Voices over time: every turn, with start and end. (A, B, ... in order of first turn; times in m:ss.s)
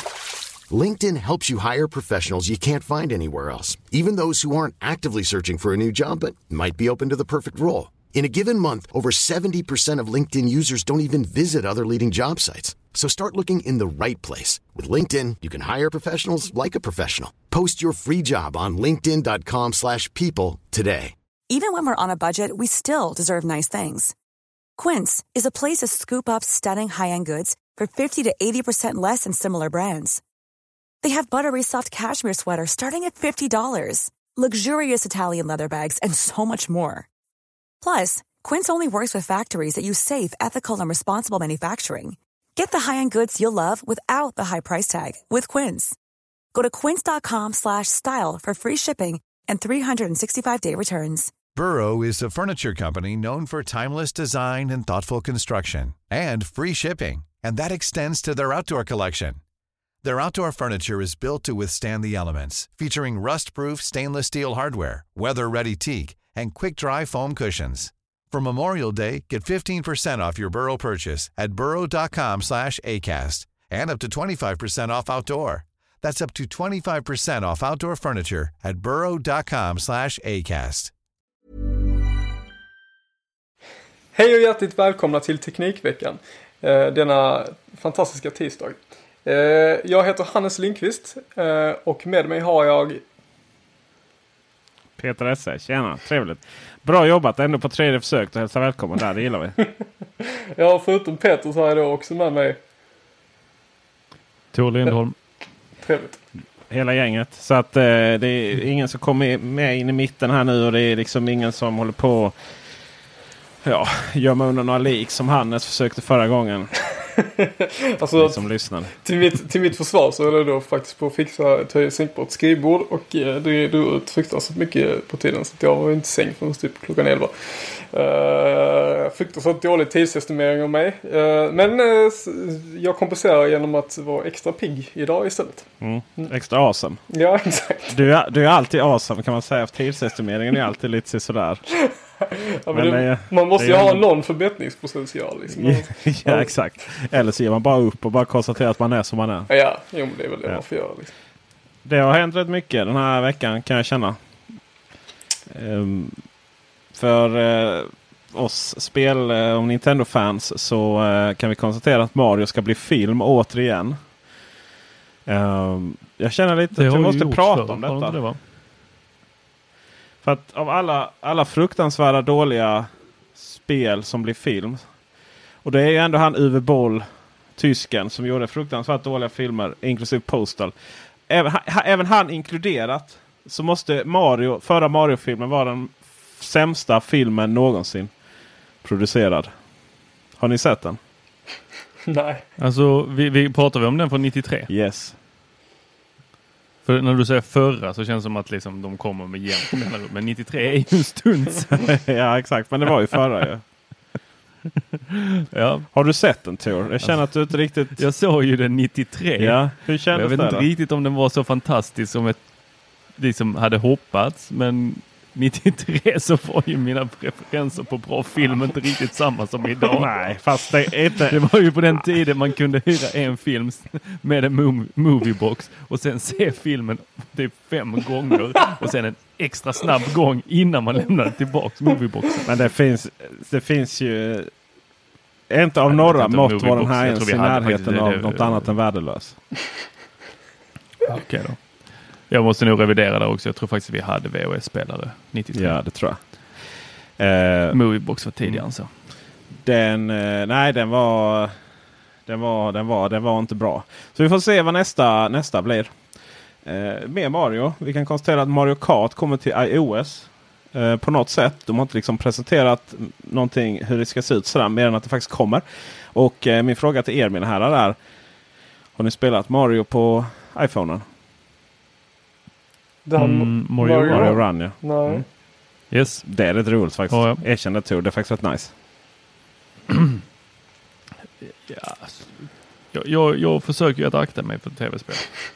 0:00.7-0:21.1 A
0:21.5-0:24.1 B
0:24.8-0:30.2 B
0:31.0-0:37.1 B
0:37.8-0:46.0 B
0:46.5-0:51.3 B
0:51.5-0:59.4 C
1:00.0-1:20.9 C
1:24.1-1:33.0 D
1:35.0-1:39.6 E
1:40.2-1:42.6 D
1:44.5-1:45.2 F
1:45.8-1:46.2 D
1:46.7-1:52.3 E
1:53.6-1:56.7 E
1:57.2-1:58.4 D
1:58.2-1:58.9 E
1:59.0-2:15.7 D
2:15.8-2:17.0 E
2:17.1-2:18.0 D
2:17.9-2:21.6 E
2:22.2-2:26.5 D
2:22.7-2:24.0 E
2:25.5-2:29.5 E
2:29.5-2:31.1 D
2:31.8-2:34.2 E
2:35.5-2:36.2 E
2:36.9-2:44.0 E
2:45.2-2:48.2 E
2:46.8-2:48.4 F
2:50.2-2:54.8 E
2:55.6-3:00.7 E
3:01.3-3:08.1 E
3:08.8-3:09.5 E
3:10.4-3:11.0 E
3:12.1-3:12.4 D
3:12.6-3:14.7 F
3:14.7-3:15.2 E
3:16.8-3:22.0 F
3:21.7-3:23.6 E
3:25.5-3:25.9 F
3:25.9-3:28.0 E
3:27.0-3:40.1 F
3:29.4-3:30.6 E
3:39.9-3:41.4 E
3:41.2-3:52.5 F
3:52.4-3:54.5 E
3:55.5-3:59.4 E
3:55.9-3:58.7 F
4:01.0-4:05.8 F
4:05.5-4:06.2 E
4:07.2-4:07.8 E
4:07.7-4:08.9 F
4:09.6-4:11.5 E
4:12.2-4:15.9 E
4:16.6-4:28.0 E
4:28.9-4:31.0 E
4:33.0-4:35.2 D
4:33.2-4:34.4 F
4:34.0-4:35.2 E
4:35.9-4:36.3 F
4:36.2-4:38.7 E
4:37.1-4:37.4 F
4:41.6-4:45.4 F